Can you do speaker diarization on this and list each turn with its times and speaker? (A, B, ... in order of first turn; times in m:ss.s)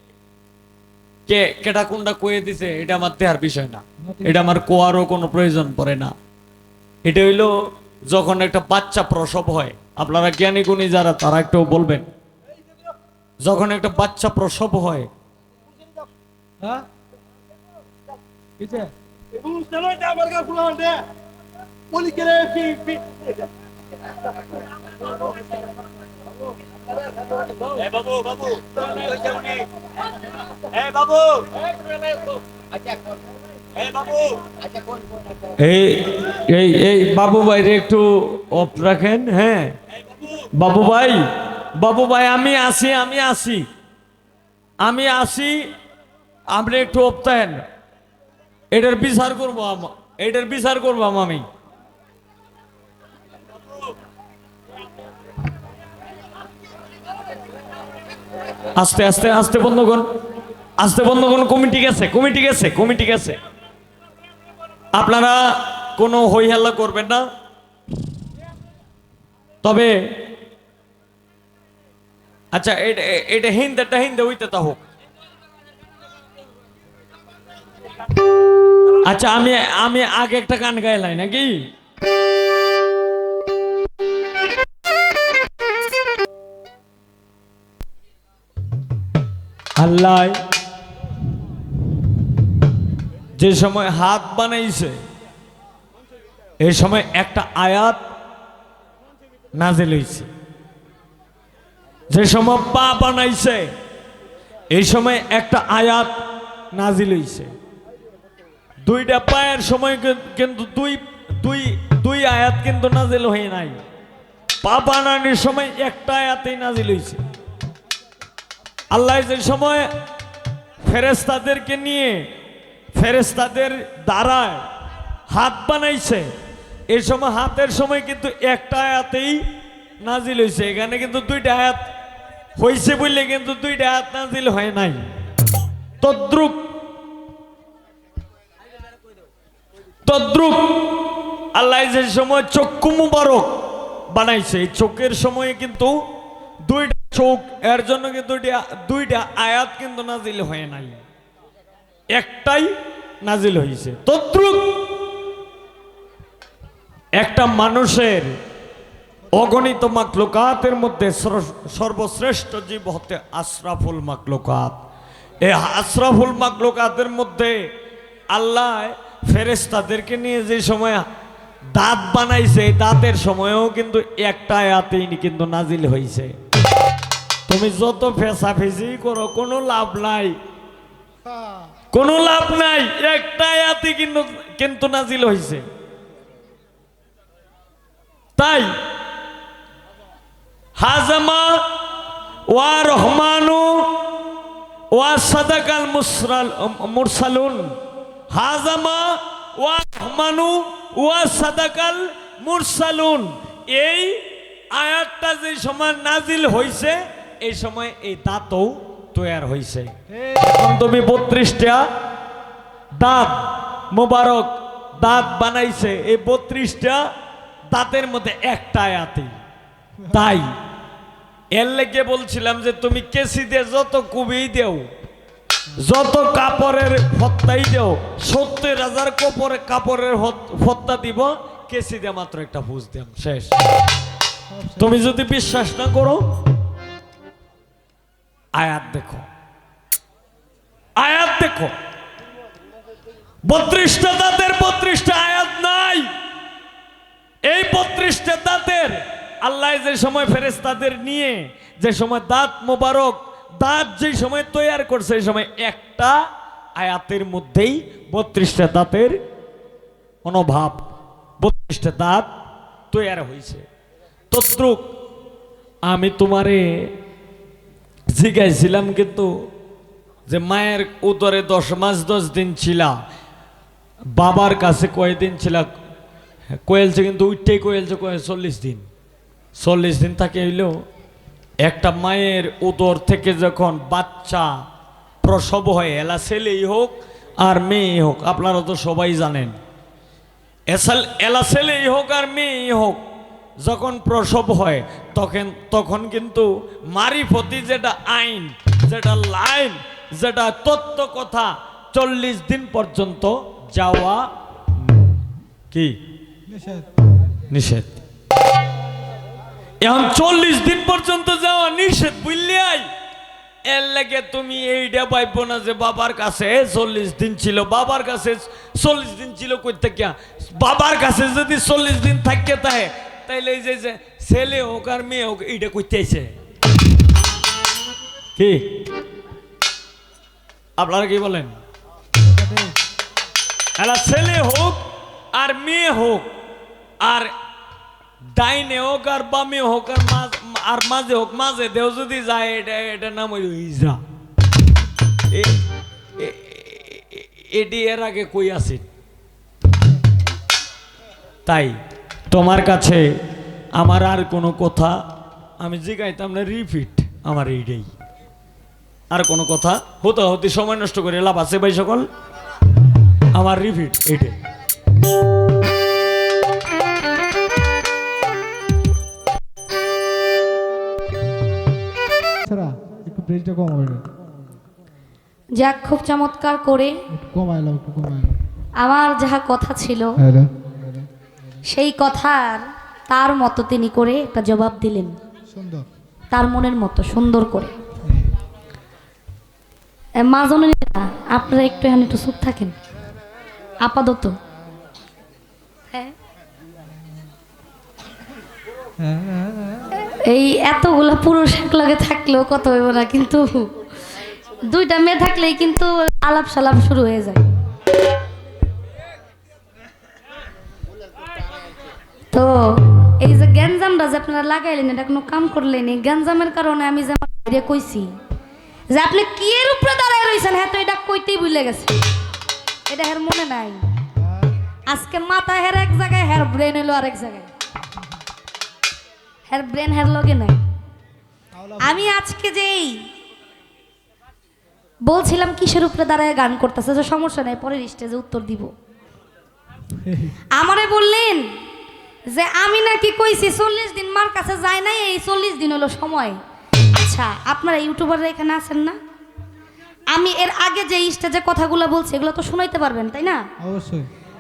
0:01.3-0:06.1 A
0:04.0-0:04.6 B
0:07.0-0:07.5 A
0:08.1-0:12.1 A
0:13.4-0:15.1 A
0:16.6-0:16.9 B
0:18.6-0:18.9 B
0:19.5-0:20.8 B
0:22.0-0:23.0 B
0:27.7-0:29.6 A
0:30.6-0:31.6 A
0:33.9-0:34.4 A
0:35.6-0:39.8 A
0:40.5-0:41.2 A
0:41.8-0:43.7 A
0:44.8-0:45.6 A
0:46.5-0:47.6 A
0:48.7-0:51.5 A
0:58.8-1:00.1 A
1:00.8-1:03.4 A
1:04.9-1:07.2 A
1:09.6-1:09.9 A
1:12.5-1:14.8 A
1:19.0-1:21.7 A
1:29.8-1:30.4 A
1:33.4-1:35.0 A
1:36.6-1:38.0 A
1:39.6-1:40.3 A
1:42.1-1:43.7 A
1:44.7-1:46.1 A
1:46.7-1:47.5 A
1:48.8-1:53.8 A
1:54.6-1:57.2 A
1:58.9-1:59.9 A
2:00.8-2:02.2 A
2:03.0-2:04.6 A
2:05.3-2:06.3 A
2:06.9-2:09.4 A
2:10.0-2:11.8 A
2:12.6-2:15.1 A
2:16.0-2:16.6 A
2:20.0-2:23.5 A
2:24.1-2:26.0 A
2:26.6-2:31.0 A
2:32.1-2:32.7 A
2:33.2-2:34.8 A
2:37.2-2:38.3 A
2:39.3-2:44.8 A
2:45.4-2:47.6 A
2:48.3-2:51.1 A
2:51.7-2:56.3 A
2:57.5-3:00.3 A
3:01.9-3:05.6 A
3:08.4-3:08.7 A
3:10.8-3:11.5 A
3:12.5-3:13.8 A
3:14.9-3:17.7 A
3:18.3-3:24.2 A
3:24.7-3:31.8 A
3:30.1-3:30.5 B
3:33.0-3:37.0 A
3:37.7-3:39.4 A
3:40.1-3:40.5 A
3:41.5-3:44.9 A
3:45.8-3:53.6 A
3:54.5-3:55.0 B
3:54.8-3:56.2 A
3:58.5-3:59.3 A
4:01.0-4:01.7 A
4:03.4-4:06.1 A
4:07.5-4:16.2 A
4:16.8-4:19.2 A
4:20.2-4:20.8 A
4:21.4-4:22.3 A
4:22.9-4:23.6 A
4:24.3-4:24.9 A
4:25.9-4:26.9 A
4:28.1-4:29.3 A
4:30.3-4:32.9 A
4:34.1-4:35.7 A
4:36.6-4:38.8 A
4:39.6-4:40.7 A
4:41.6-4:44.5 A
4:45.2-4:49.6 A
4:50.7-4:53.0 A
4:53.6-5:04.2 A
5:06.5-5:06.8 B
5:07.5-5:07.9 A
5:09.8-5:12.9 A
5:13.7-5:26.4 A
5:28.4-5:28.6 A
5:30.8-5:31.6 A
5:32.2-5:32.8 B
5:33.8-5:34.8 A
5:35.3-5:36.3 A
5:37.0-5:37.3 A
5:38.3-5:44.0 A
5:45.3-5:45.6 A
5:46.2-5:48.9 A
5:51.5-5:51.8 A
5:52.3-5:53.1 A
5:53.8-5:55.0 A
5:55.6-5:57.9 A
5:59.1-6:02.1 A
6:03.3-6:04.4 A
6:12.4-6:14.1 B
6:15.6-6:17.0 C
6:17.1-6:18.4 B
6:18.8-6:20.2 C
6:20.2-6:21.1 B
6:21.7-6:25.2 C
6:25.5-6:25.9 B
6:26.3-6:27.7 C
6:30.2-6:32.8 C
6:33.8-6:34.4 C
6:39.0-6:39.9 B
6:40.1-6:43.7 C
6:44.7-6:47.5 C
6:52.3-6:58.2 C
6:58.9-7:02.0 C
7:02.9-7:03.8 C
7:04.2-7:04.5 B
7:04.9-7:07.5 C
7:09.5-7:10.6 C
7:11.5-7:12.1 B
7:11.8-7:13.0 C
7:15.0-7:18.7 C
7:20.0-7:20.3 B
7:20.6-7:21.5 C
7:22.3-7:26.4 C
7:26.9-7:29.0 C
7:30.1-7:33.4 C
7:33.6-7:34.1 B